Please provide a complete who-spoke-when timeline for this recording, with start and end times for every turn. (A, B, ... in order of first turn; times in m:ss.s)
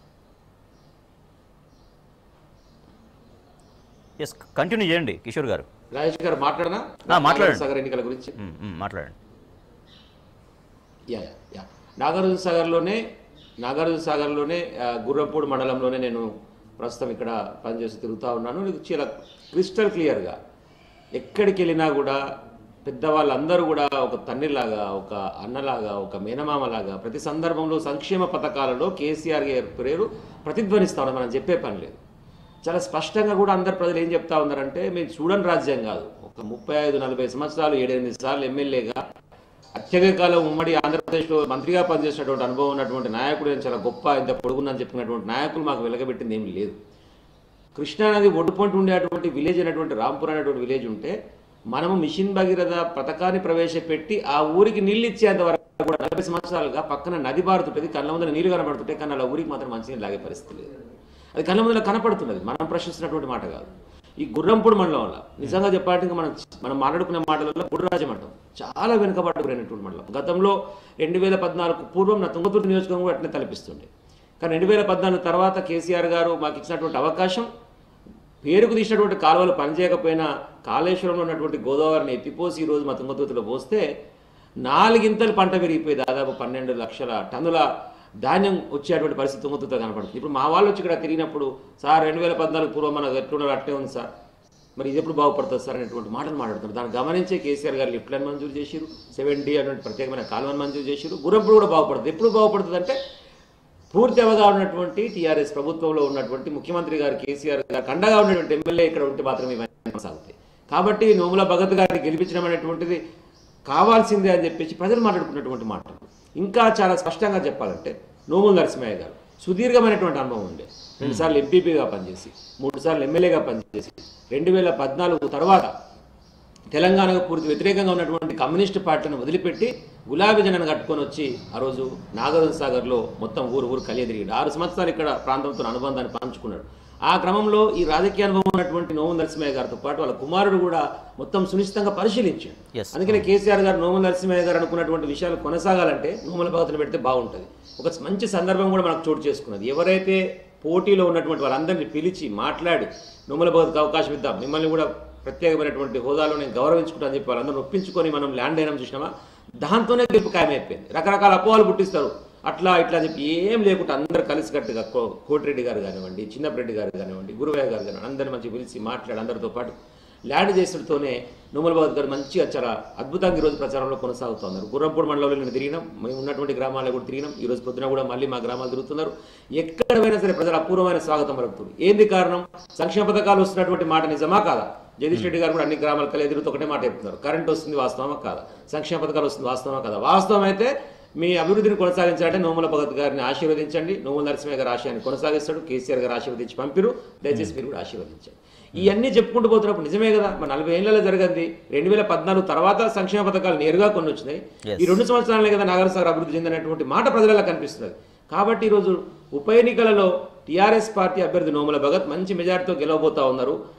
0:04.2-0:05.7 A
0:05.9-0:08.3 B
0:07.1-0:07.6 A
0:08.4-0:09.1 A
0:11.1-0:13.0 B
0:13.6-0:16.2 B
0:16.8-0:20.3 B
0:21.1-0:22.2 B
0:22.8-0:32.0 B
0:32.6-0:39.0 B
0:39.8-0:46.8 B
0:47.8-0:51.1 B
0:51.7-1:00.7 B
1:01.4-1:03.7 B
1:04.2-1:13.9 B
1:14.4-1:17.5 B
1:18.4-1:23.8 B
1:24.6-1:27.6 B
1:28.2-1:34.1 B
1:34.8-1:43.0 B
1:43.9-1:53.0 B
1:53.7-2:05.7 B
2:01.0-2:01.3 A
2:06.7-2:39.1 B
2:22.8-2:23.2 A
2:39.6-2:49.8 B
2:50.3-3:33.6 B
3:24.7-3:25.0 A